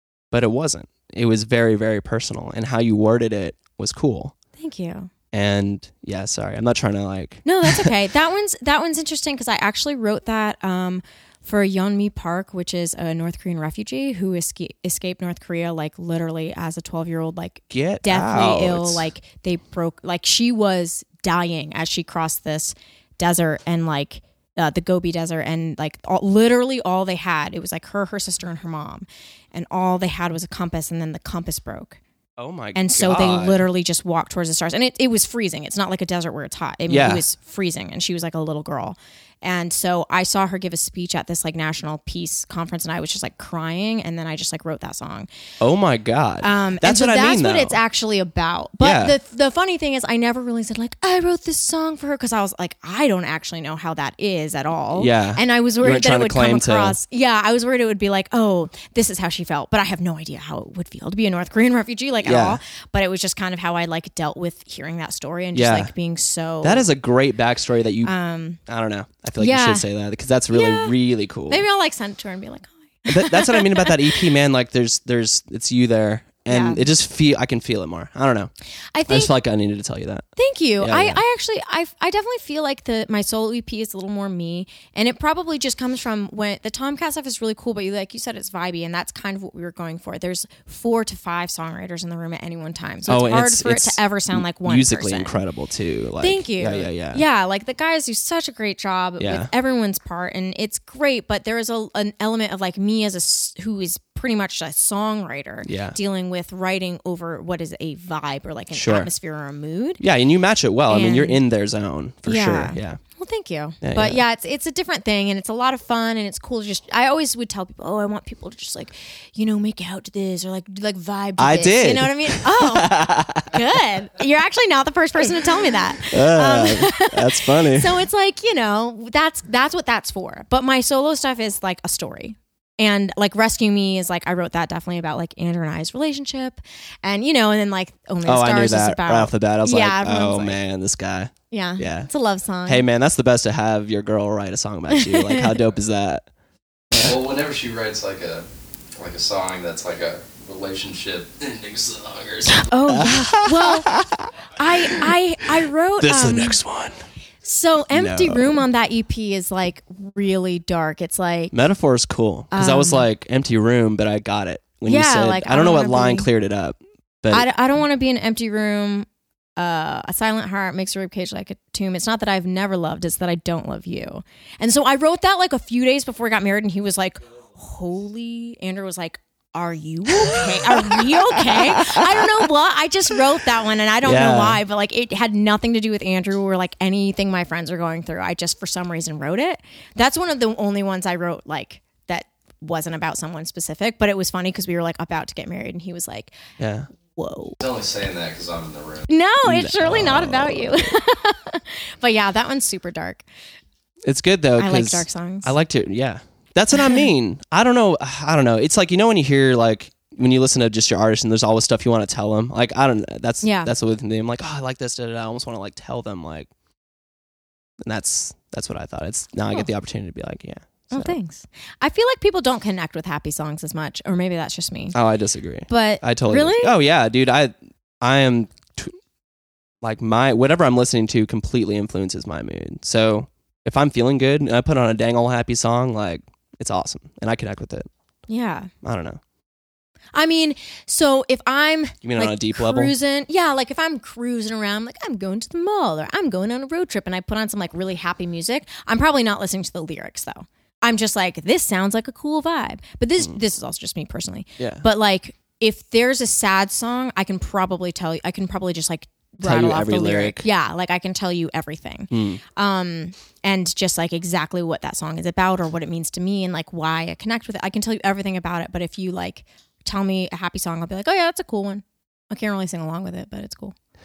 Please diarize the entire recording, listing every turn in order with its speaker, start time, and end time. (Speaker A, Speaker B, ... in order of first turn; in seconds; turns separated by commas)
Speaker A: 0.3-4.3, Speaker B: 4.6-5.1, Speaker A: 5.3-7.9, Speaker B: 7.5-32.0, Speaker A: 17.7-19.1, Speaker A: 32.4-33.6, Speaker B: 32.8-45.3, Speaker A: 36.9-37.2, Speaker A: 45.6-47.8, Speaker B: 46.4-66.9, Speaker A: 48.8-49.2, Speaker A: 55.0-57.0, Speaker A: 62.2-62.6, Speaker A: 65.5-65.9, Speaker A: 66.6-68.1, Speaker B: 68.0-68.6, Speaker A: 68.7-71.6, Speaker B: 69.4-69.9, Speaker B: 70.5-70.9, Speaker B: 71.5-74.3, Speaker A: 73.1-78.5, Speaker B: 76.5-76.9, Speaker B: 78.9-79.3, Speaker A: 79.1-80.2, Speaker B: 80.4-95.4, Speaker A: 80.8-81.2, Speaker A: 93.1-97.2, Speaker B: 96.2-110.0, Speaker A: 99.2-99.5, Speaker A: 105.7-106.0, Speaker A: 108.7-109.1, Speaker A: 110.0-113.0, Speaker B: 110.9-111.4, Speaker B: 112.2-140.6, Speaker A: 113.8-114.2, Speaker A: 121.4-123.6, Speaker A: 126.0-128.0, Speaker A: 138.2-142.1, Speaker B: 141.5-142.9, Speaker A: 142.7-146.3, Speaker B: 144.9-145.5, Speaker A: 146.9-147.2, Speaker C: 147.0-152.5, Speaker B: 152.5-154.0, Speaker A: 152.9-154.3, Speaker B: 154.6-156.6, Speaker A: 156.0-156.9, Speaker B: 157.4-161.5, Speaker A: 157.9-158.6, Speaker A: 161.5-167.5, Speaker B: 162.5-163.1, Speaker B: 164.9-166.3, Speaker B: 167.3-196.3, Speaker A: 180.2-182.4, Speaker A: 184.0-184.6, Speaker A: 196.6-196.9, Speaker B: 197.2-197.6, Speaker C: 197.6-199.1, Speaker B: 199.1-203.2, Speaker A: 199.4-200.8, Speaker A: 204.1-216.5, Speaker B: 204.6-205.5, Speaker B: 206.7-207.1, Speaker B: 213.4-213.7, Speaker A: 217.8-221.2, Speaker B: 220.9-224.9, Speaker A: 224.9-228.9, Speaker B: 225.7-226.8, Speaker A: 229.8-237.9, Speaker B: 238.3-238.7, Speaker A: 238.8-239.2, Speaker B: 240.1-273.8, Speaker A: 242.0-242.9, Speaker A: 254.6-254.9, Speaker A: 259.4-260.5, Speaker A: 262.1-262.4